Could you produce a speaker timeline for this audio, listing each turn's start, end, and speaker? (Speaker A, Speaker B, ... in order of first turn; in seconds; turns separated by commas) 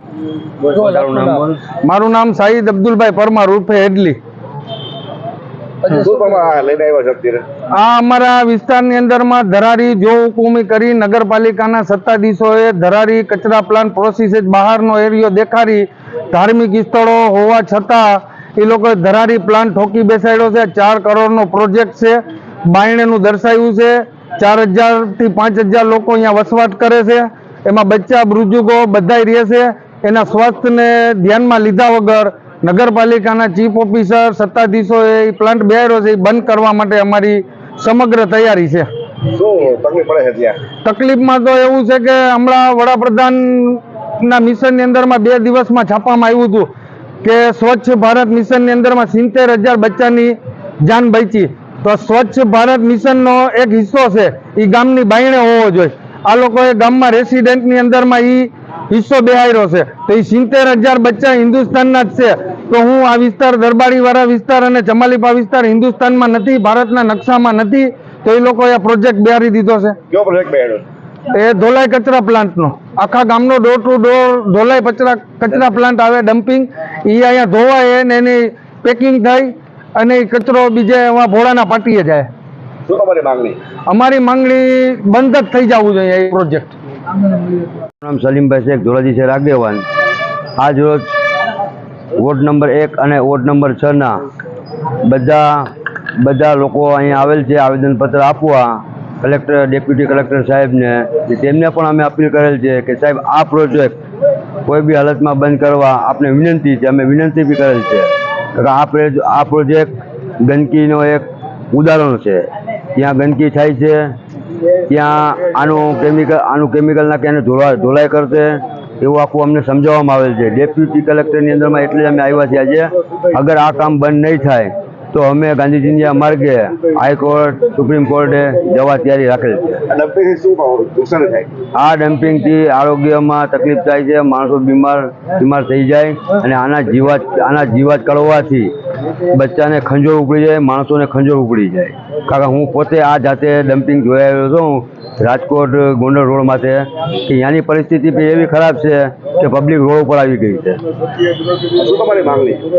Speaker A: 0.6-1.6, Speaker B: 1.8-4.2, Speaker C: 5.9-7.5, Speaker B: 7.7-38.9, Speaker C: 39.3-40.6, Speaker B: 40.8-46.7, Speaker B: 47.2-70.0, Speaker C: 70.1-70.8, Speaker B: 71.3-82.3, Speaker C: 82.9-83.6, Speaker B: 83.9-86.7, Speaker A: 88.0-89.9, Speaker A: 90.6-91.0, Speaker A: 92.2-94.3, Speaker A: 95.0-104.0, Speaker A: 104.7-114.2, Speaker A: 114.9-129.8, Speaker C: 129.9-131.5, Speaker A: 131.8-138.7, Speaker A: 139.3-150.8, Speaker C: 151.7-152.6